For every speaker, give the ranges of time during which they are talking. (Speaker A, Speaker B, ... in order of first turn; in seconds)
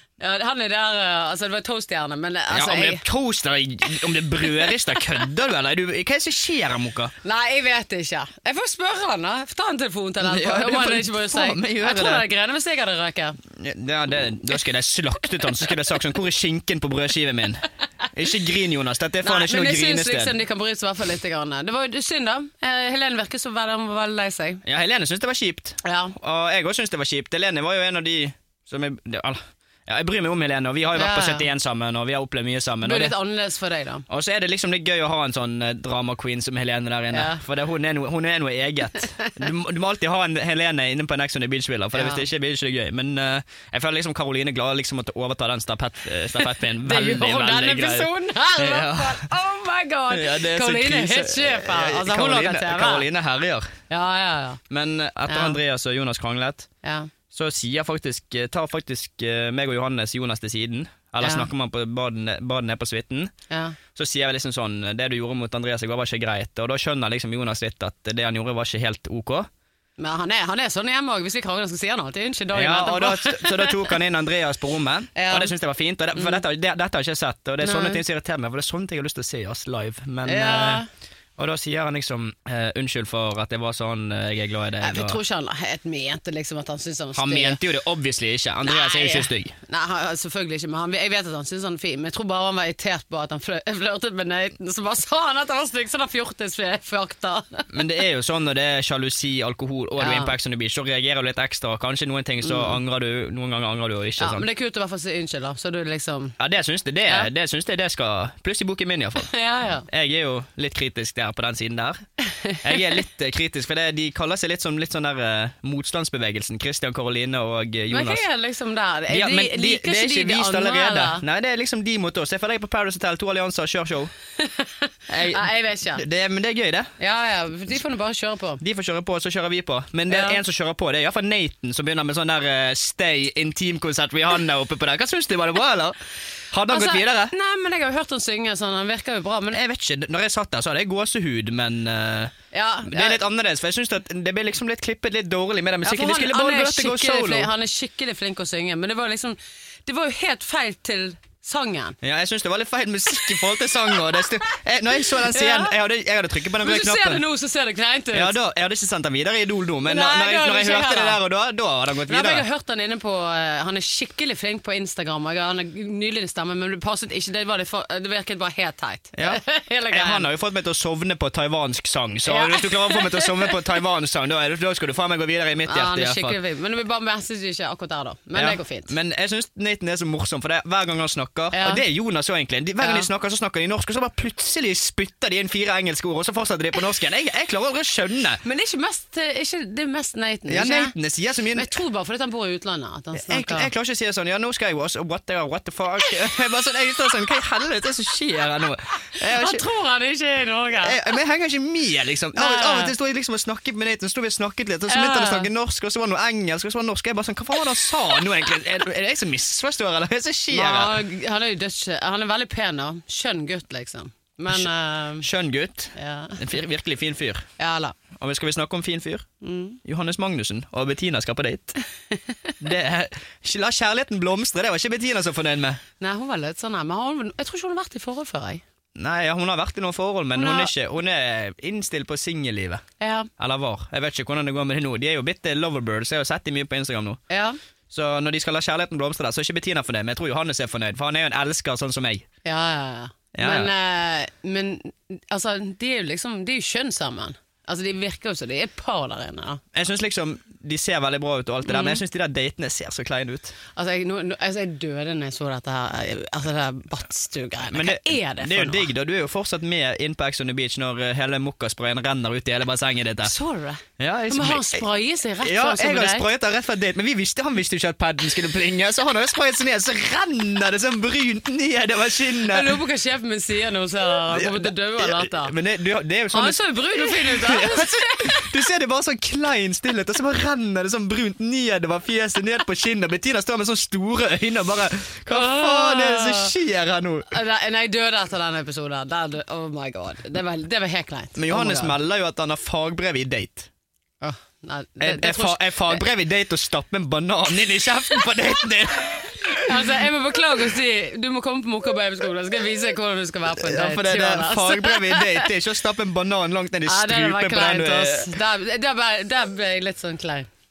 Speaker A: 0.2-3.0, 7.2-13.4, 19.2-24.6, 25.8-26.1, 30.9-31.4, 32.8-34.0, 37.1-37.4, 39.1-39.5, 41.9-42.2, 46.4-53.0, 53.9-54.6, 55.3-55.6, 56.8-57.1, 61.2-61.5, 63.5-63.8, 70.0-73.8, 75.1-75.5, 77.6-78.0, 80.2-80.9, 84.8-87.6, 88.6-97.7, 100.0-100.3, 102.4-102.8, 104.2-106.4, 109.2-109.9, 112.2-113.0, 117.9-121.2, 124.4-126.0, 127.0-128.6, 130.1-130.4, 136.7-139.6, 142.5-143.2, 145.8-152.0, 155.1-155.7, 156.6-158.3, 159.8-161.2, 162.1-170.3, 172.2-173.6, 175.7-178.9, 181.5-181.8, 182.8-183.1, 188.4-190.9, 191.5-193.7, 199.2-201.0, 202.3-202.9, 204.9-205.5, 210.5-215.3, 215.9-216.4, 217.6-217.9, 219.4-219.8, 222.1-222.5, 226.0-228.6, 230.3-230.7, 233.0-233.3, 237.3-237.6, 242.4-249.6, 251.7-252.0, 253.8-258.9, 263.2-266.3, 272.5-275.5, 276.3-278.5, 285.3-286.5, 287.3-291.9, 294.2-296.0, 299.6-305.5, 306.9-310.5
Speaker B: 2.5-7.1, 10.2-12.3, 13.5-20.4, 24.6-33.1, 34.1-49.3, 50.1-53.8, 54.7-56.7, 57.3-63.3, 63.9-69.5, 72.5-80.8, 81.4-85.2, 87.2-89.5, 97.7-104.4, 106.4-109.3, 109.9-112.0, 112.6-118.2, 119.1-124.1, 125.1-126.9, 128.6-135.9, 136.5-137.3, 139.5-147.5, 152.0-157.2, 158.1-162.4, 169.1-176.4, 178.3-188.4, 190.5-191.7, 193.1-199.6, 200.8-211.0, 215.2-217.5, 218.1-219.3, 219.8-221.8, 222.6-225.8, 228.9-232.8, 233.4-237.2, 237.9-242.2, 243.3-243.7, 249.7-253.6, 257.7-263.3, 264.0-264.8, 265.4-272.8, 274.3-287.3, 291.4-293.7, 295.0-299.9, 303.6-308.4